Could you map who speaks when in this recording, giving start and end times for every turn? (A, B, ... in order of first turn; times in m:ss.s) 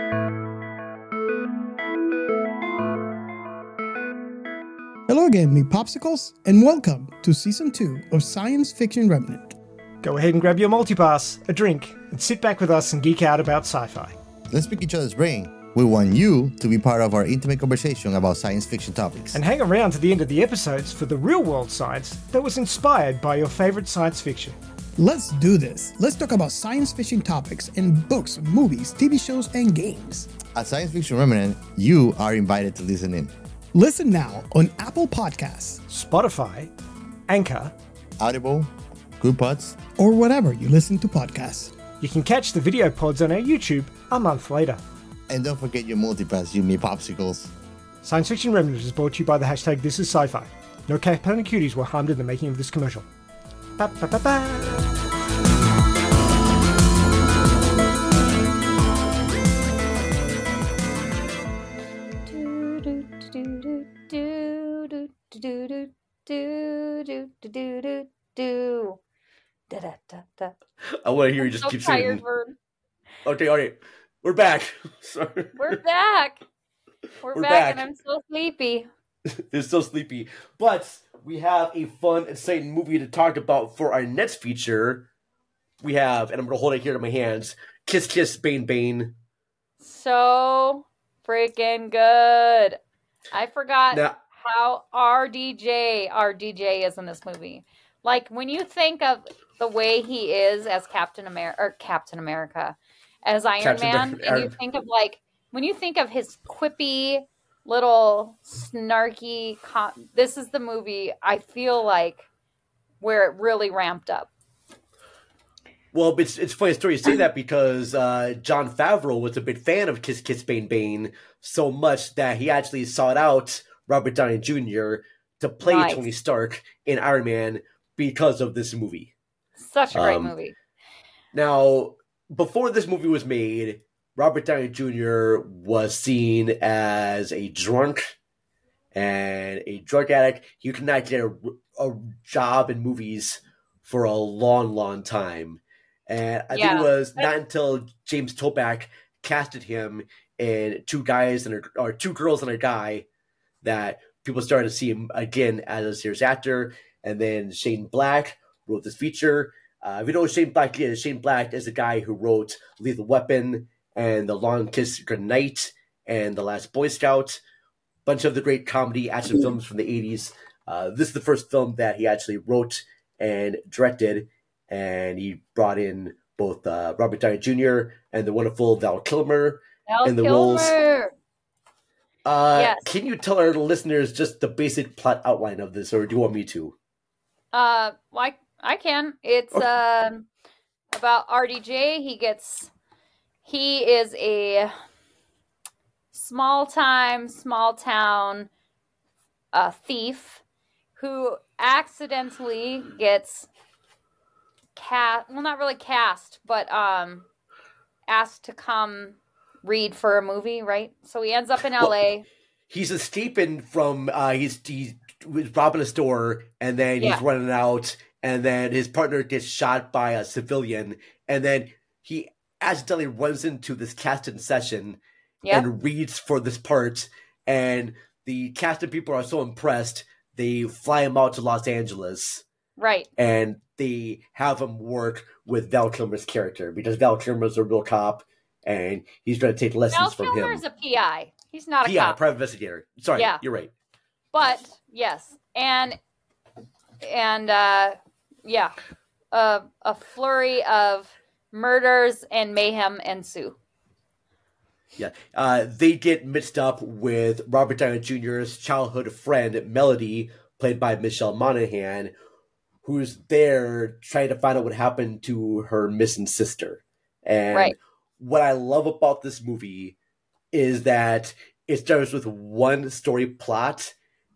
0:05.1-0:09.6 A
0:10.0-0:14.2 B
0:14.5-0:19.4 C
0:19.3-0:24.6 B
0:25.0-0:30.4 A
0:30.5-0:33.3 C
0:33.7-0:35.8 A
0:35.9-0:36.7 B
0:37.3-0:37.7 B
0:38.2-0:39.8 C
0:39.9-0:41.8 A
0:42.0-0:44.8 B
0:45.3-0:47.5 C
0:48.0-0:53.1 B
0:53.8-0:54.9 B
1:02.3-1:09.0 D
1:09.7-1:10.5 D
1:11.0-1:12.2 E
1:11.4-1:12.6 D
1:13.2-1:15.8 E
1:15.6-1:16.4 D
1:17.2-1:18.9 D
1:17.3-1:17.8 E
1:19.5-1:25.1 E
1:25.8-1:29.1 E
1:29.8-1:32.8 D
1:33.3-1:52.2 D
1:33.9-1:34.2 E
1:43.6-1:44.5 E
1:53.0-1:54.3 D
1:55.9-2:09.1 E
2:05.6-2:06.0 D
2:09.6-2:10.5 D
2:09.9-2:10.3 E
2:11.3-2:18.2 E
2:18.9-2:33.0 E
2:26.5-2:27.3 D
2:33.6-2:47.4 E
2:48.0-3:00.7 E
2:59.9-3:01.1 D
3:02.2-3:06.7 E
3:02.5-3:02.9 D
3:07.5-3:10.3 D
3:10.9-3:12.7 D
3:13.4-3:14.7 D
3:16.1-3:18.5 D
3:19.5-3:20.4 D
3:21.0-3:23.5 D
3:24.8-3:27.3 D
3:28.1-3:32.2 D
3:32.7-3:52.4 E
3:52.8-3:53.1 D
3:53.2-4:00.6 E
3:59.9-4:02.2 D
4:01.8-4:03.7 E
4:03.2-4:03.4 D
4:04.3-4:06.0 D
4:07.0-4:08.7 D
4:09.3-4:13.6 D
4:15.0-4:22.1 E
4:22.8-4:30.0 E
4:30.5-4:33.9 E